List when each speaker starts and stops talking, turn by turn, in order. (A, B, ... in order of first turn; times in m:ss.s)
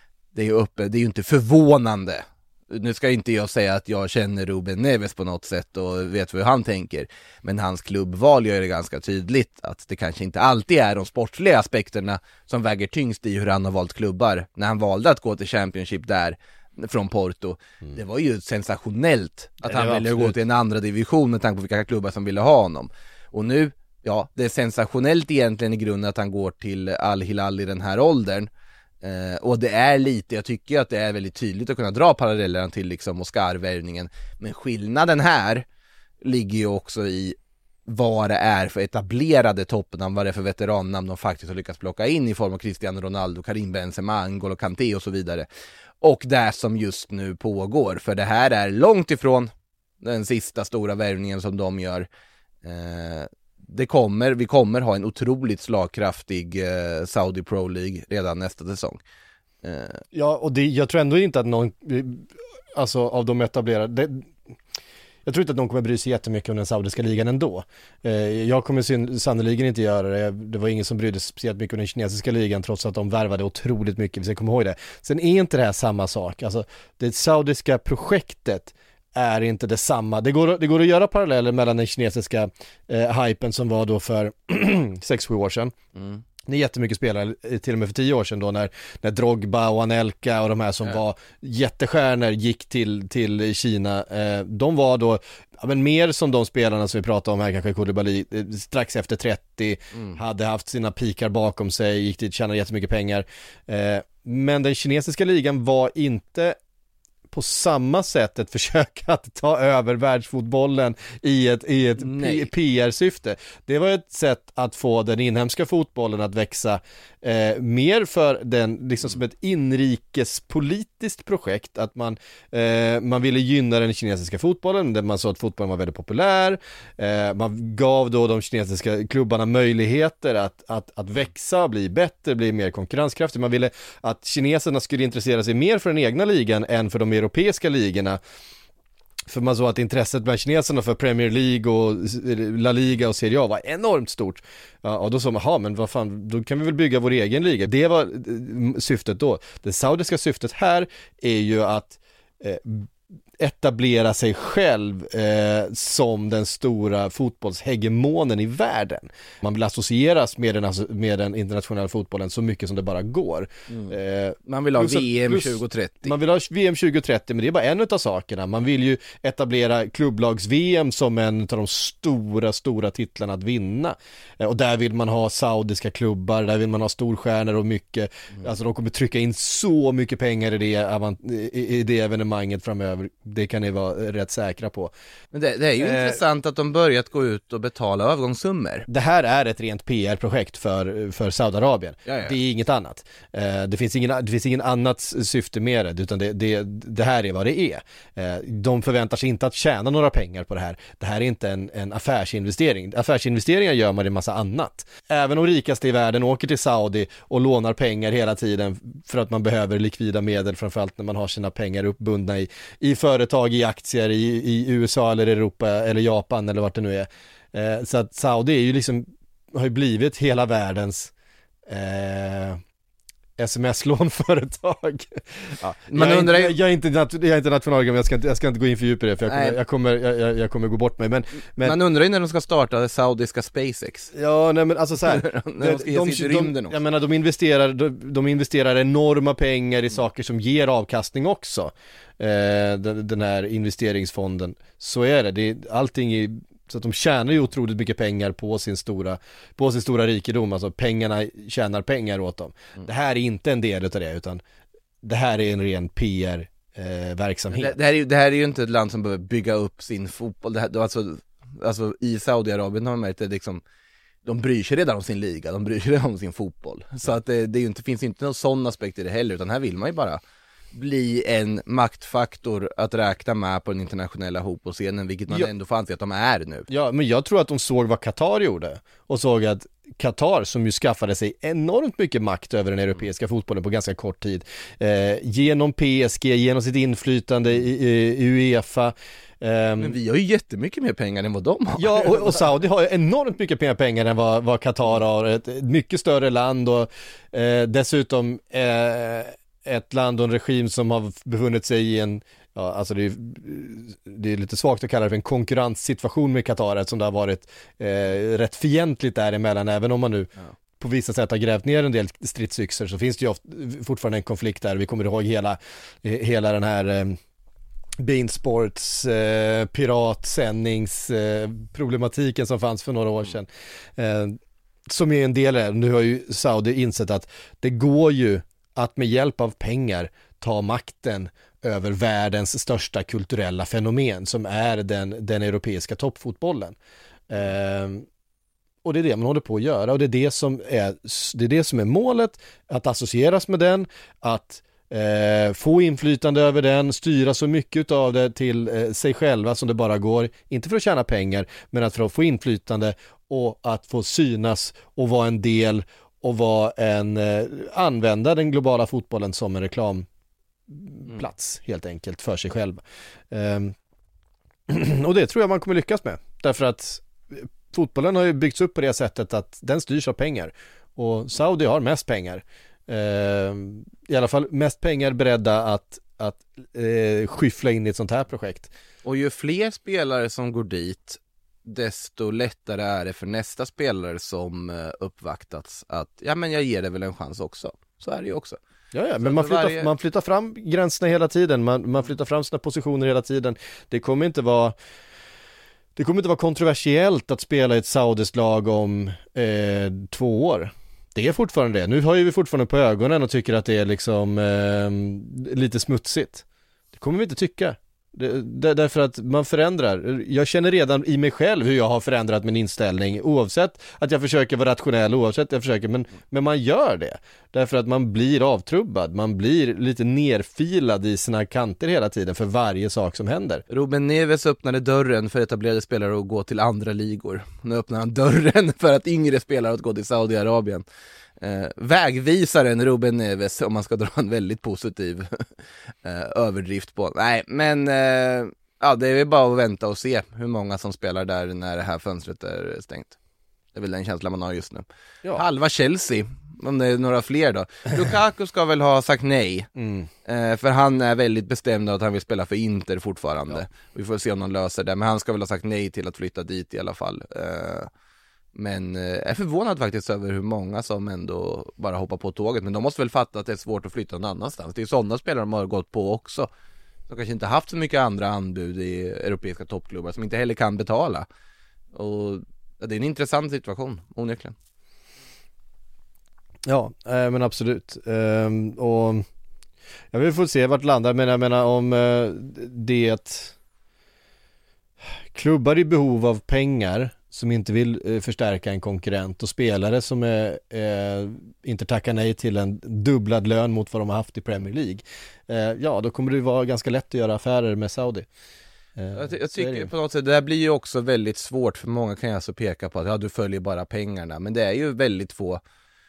0:00.3-0:28.5 A
0:19.6-0:20.4 B
0:29.0-0:35.6 A
0:36.2-0:37.4 A
0:37.9-0:45.5 A
0:46.0-0:49.5 A
0:50.0-0:52.1 A
0:52.6-0:59.0 A
0:59.6-1:00.0 A
1:00.1-1:04.3 B
1:05.3-1:25.7 B
1:26.0-1:26.2 A
1:26.4-1:46.6 B
1:39.9-1:40.2 A
1:47.3-2:18.2 B
1:52.0-1:52.5 A
2:19.3-3:04.9 B
2:43.7-2:44.0 A
2:44.5-2:46.2 A
3:05.3-3:08.9 A
3:05.8-3:06.2 B
3:08.9-3:41.1 B
3:12.1-3:12.4 A
3:41.7-3:42.6 B
3:43.4-3:51.8 B
3:45.9-3:46.6 A
3:49.3-3:49.6 A
3:51.6-3:54.1 A
3:54.1-4:14.4 B
3:55.0-3:56.8 A
4:15.0-4:17.8 B
4:17.5-4:23.6 A
4:24.2-4:30.2 A
4:30.7-4:36.7 A
4:36.7-4:50.0 B
4:49.8-4:52.4 A
4:51.8-5:17.2 B
5:18.0-5:36.8 B
5:37.3-5:38.1 B
5:38.8-6:00.1 B
6:00.7-6:03.8 B
6:04.7-6:18.7 B
6:19.0-6:28.6 A
6:28.9-6:34.8 B
6:29.2-6:29.9 A
6:36.0-7:03.6 B
7:03.7-7:10.8 A
7:11.4-7:15.5 A
7:16.0-7:23.2 A
7:23.8-7:29.7 A
7:29.8-7:30.1 B
7:30.3-7:37.9 A
7:38.6-7:46.5 A
7:47.1-7:51.3 A
7:51.9-7:54.6 A
7:56.7-7:59.3 B
8:00.1-8:03.6 B
8:05.3-8:18.3 B
8:19.0-8:19.9 B
8:19.1-8:25.6 A